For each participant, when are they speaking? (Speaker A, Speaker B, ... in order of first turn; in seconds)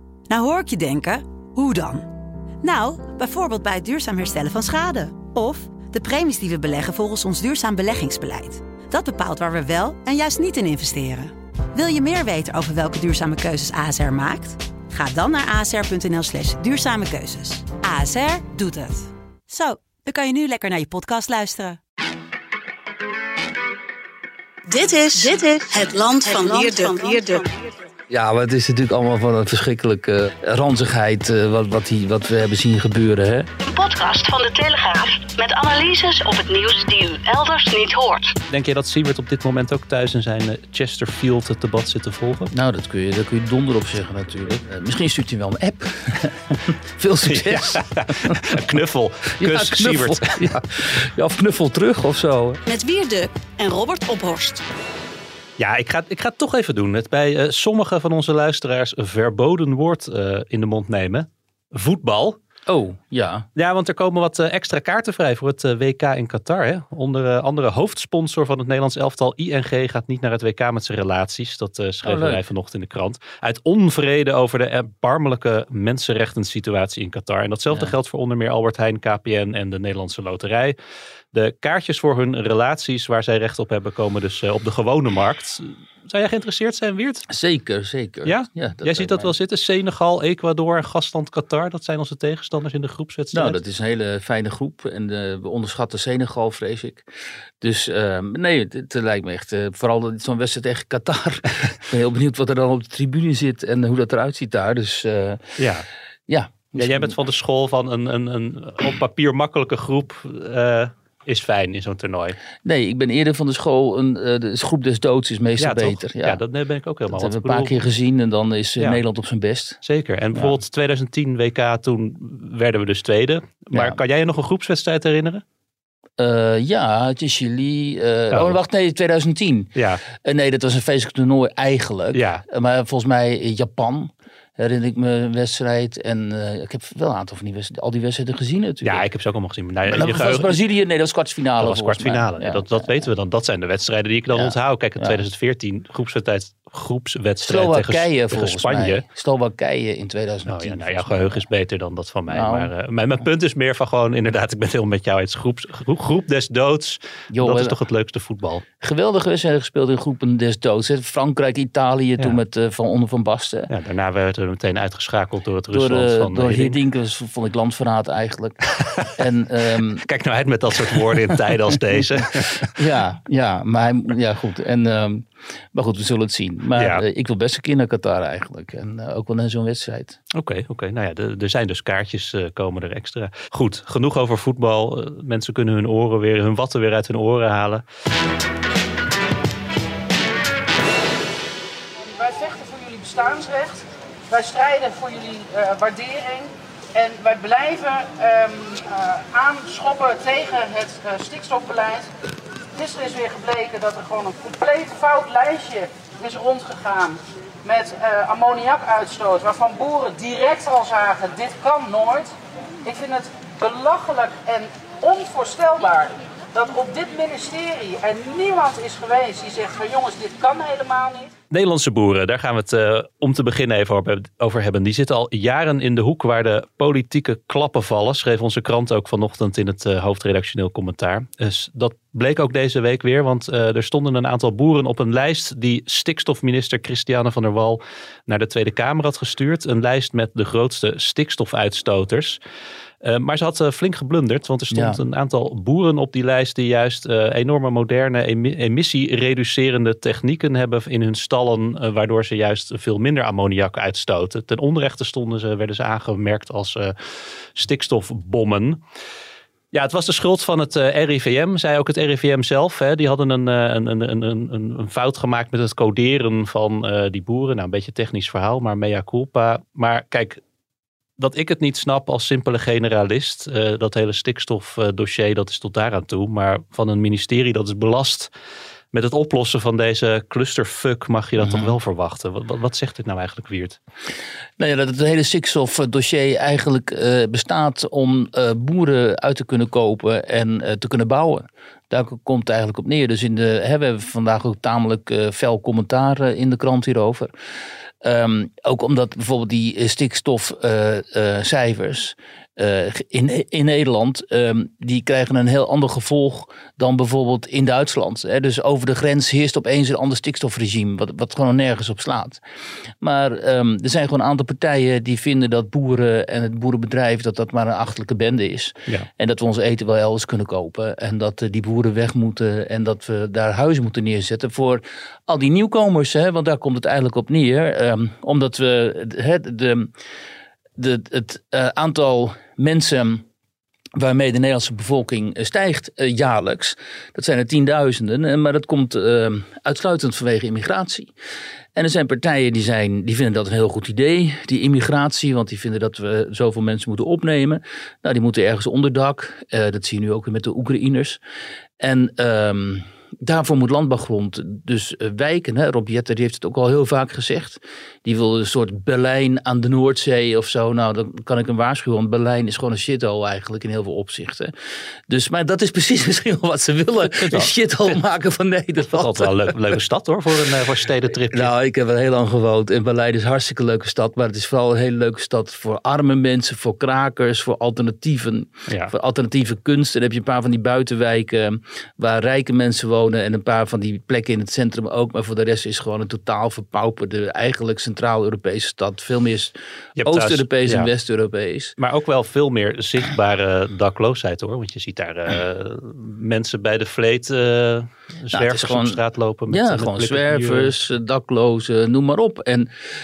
Speaker A: 0.3-2.1, 2.6-21.8
Speaker B: 24.7-27.5, 33.6-38.3, 52.6-54.6
Speaker C: 28.1-33.5, 42.5-48.6, 49.4-52.6, 62.7-63.5, 72.0-72.4, 87.3-89.3, 93.3-97.0, 97.6-105.6, 106.3-107.2, 112.6-116.4, 117.1-119.8, 123.7-124.0, 126.2-139.0, 139.9-143.0, 144.3-145.2, 147.4-151.4, 152.3-152.7, 157.3-157.8, 158.8-163.7, 165.7-168.6, 169.1-170.0, 172.6-180.2, 244.7-245.0, 281.4-281.7, 284.6-297.3, 298.0-312.4, 313.0-329.9, 330.8-333.2, 333.9-341.1, 341.8-351.2, 351.8-364.5, 365.1-369.5, 371.3-389.5, 390.0-391.7, 398.3-402.7
Speaker D: 38.5-42.5, 47.2-50.6, 55.6-62.4, 63.5-80.8, 81.3-87.2, 88.2-93.6, 105.6-105.8, 106.7-112.4, 115.6-117.8, 119.8-125.4, 128.3-128.6, 129.7-130.0, 132.1-132.4, 138.8-140.6, 141.6-149.0, 150.4-158.6, 163.7-166.8, 168.8-169.3, 169.8-172.7, 176.7-177.0, 180.3-187.8, 221.5-242.4, 243.0-256.9, 257.5-258.8, 259.7-270.4, 271.2-278.3, 278.9-283.8, 367.2-367.5, 368.9-371.5, 378.7-378.9, 390.0-390.9, 391.8-400.8
Speaker E: 192.0-202.1, 202.7-212.3, 212.8-221.3